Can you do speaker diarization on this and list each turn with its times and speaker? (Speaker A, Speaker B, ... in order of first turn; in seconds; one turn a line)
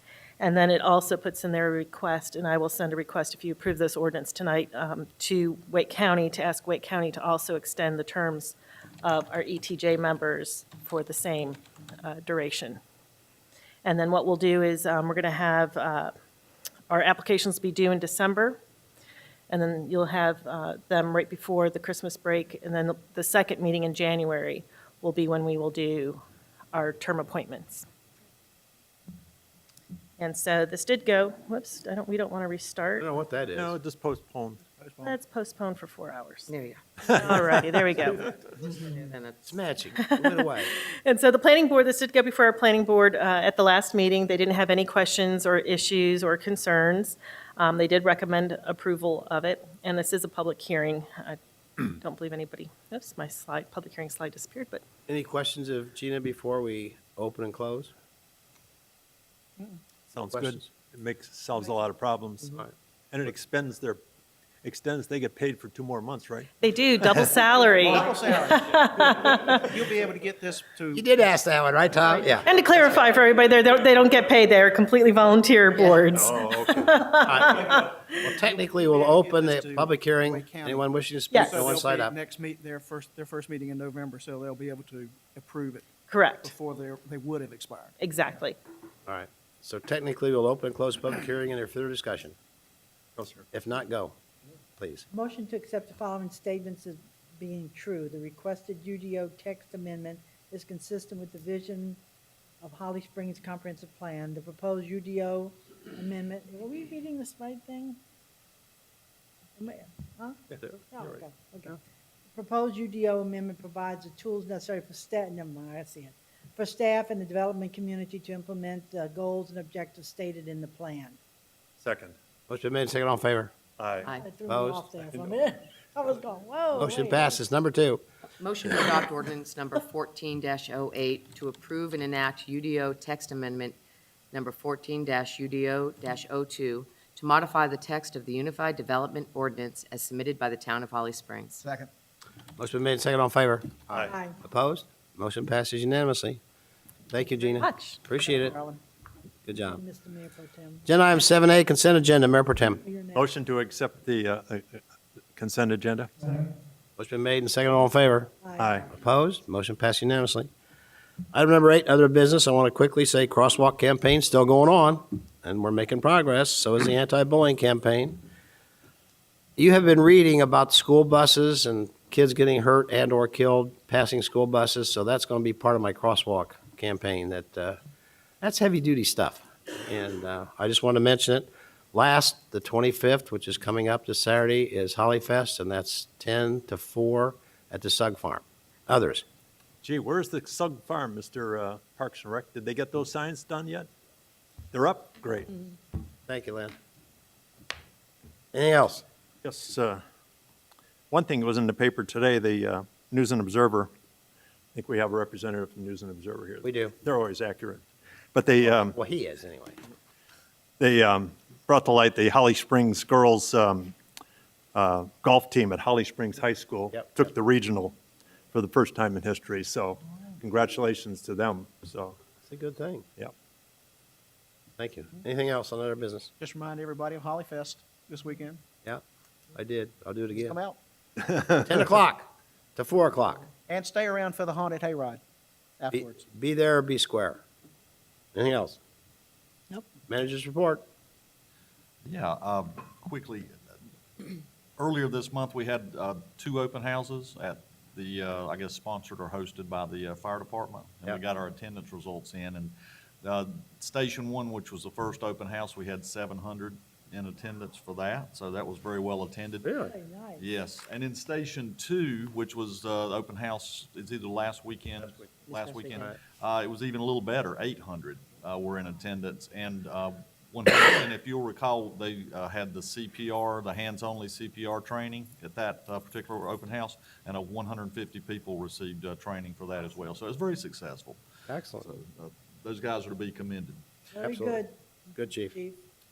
Speaker A: 0.4-12.8
Speaker A: 13.8-16.1
Speaker A: 16.9-18.6
Speaker A: 19.5-26.2
Speaker A: 26.7-27.9
Speaker A: 30.2-33.1
Speaker B: 33.0-33.7
Speaker C: 33.5-34.6
Speaker D: 34.8-35.1
Speaker A: 35.0-36.5
Speaker E: 36.5-37.2
Speaker A: 37.1-38.3
Speaker C: 37.1-37.4
Speaker E: 38.6-39.6
Speaker B: 39.4-40.7
Speaker A: 40.1-54.8
Speaker B: 55.1-57.9
Speaker C: 60.1-64.0
Speaker B: 60.3-60.6
Speaker C: 64.6-66.5
Speaker A: 66.6-69.7
Speaker D: 67.6-71.2
Speaker B: 70.9-72.5
Speaker A: 72.4-77.8
Speaker C: 76.1-77.0
Speaker B: 77.2-82.1
Speaker D: 78.2-85.9
Speaker A: 81.3-81.6
Speaker A: 86.1-86.5
Speaker D: 86.4-87.9
Speaker A: 88.0-88.6
Speaker B: 89.0-92.3
Speaker D: 93.2-93.4
Speaker B: 93.5-94.2
Speaker B: 94.8-95.0
Speaker F: 95.1-102.0
Speaker F: 102.6-108.0
Speaker F: 109.6-110.4
Speaker F: 110.9-111.8
Speaker F: 112.3-121.2
Speaker C: 121.8-122.2
Speaker B: 122.5-123.5
Speaker C: 123.8-124.2
Speaker F: 124.2-127.4
Speaker B: 124.5-124.8
Speaker C: 125.0-125.4
Speaker B: 126.7-128.0
Speaker E: 128.4-133.8
Speaker E: 134.3-141.6
Speaker D: 141.6-141.9
Speaker B: 142.6-146.4
Speaker C: 143.9-144.1
Speaker F: 144.0-144.3
Speaker B: 147.1-148.5
Speaker A: 147.6-148.0
Speaker D: 148.1-148.8
Speaker B: 149.4-149.8
Speaker F: 149.5-150.8
Speaker B: 150.8-152.8
Speaker F: 152.7-153.3
Speaker C: 153.1-154.8
Speaker C: 155.3-156.5
Speaker B: 157.0-158.3
Speaker F: 158.4-158.8
Speaker C: 158.6-158.9
Speaker B: 158.9-160.5
Speaker B: 161.3-168.2
Speaker B: 169.6-177.8
Speaker B: 178.4-189.2
Speaker C: 189.8-193.9
Speaker C: 194.7-195.7
Speaker B: 196.3-196.7
Speaker B: 198.5-199.0
Speaker C: 199.4-200.0
Speaker C: 201.1-203.9
Speaker C: 204.7-208.9
Speaker B: 206.6-206.9
Speaker B: 208.8-209.8
Speaker C: 210.8-213.9
Speaker C: 214.7-217.9
Speaker C: 218.5-222.2
Speaker B: 222.4-223.1
Speaker B: 224.8-226.3
Speaker D: 226.4-228.6
Speaker B: 229.5-230.6
Speaker D: 230.4-230.8
Speaker B: 231.5-233.5
Speaker D: 233.7-235.2
Speaker D: 235.8-236.2
Speaker B: 235.9-237.4
Speaker B: 238.3-238.8
Speaker B: 240.1-240.8
Speaker G: 242.0-243.5
Speaker G: 244.2-259.9
Speaker B: 259.6-259.9
Speaker F: 259.8-260.5
Speaker G: 260.4-281.2
Speaker B: 281.5-281.9
Speaker G: 281.8-283.8
Speaker F: 284.1-285.8
Speaker B: 284.2-284.6
Speaker B: 285.1-285.6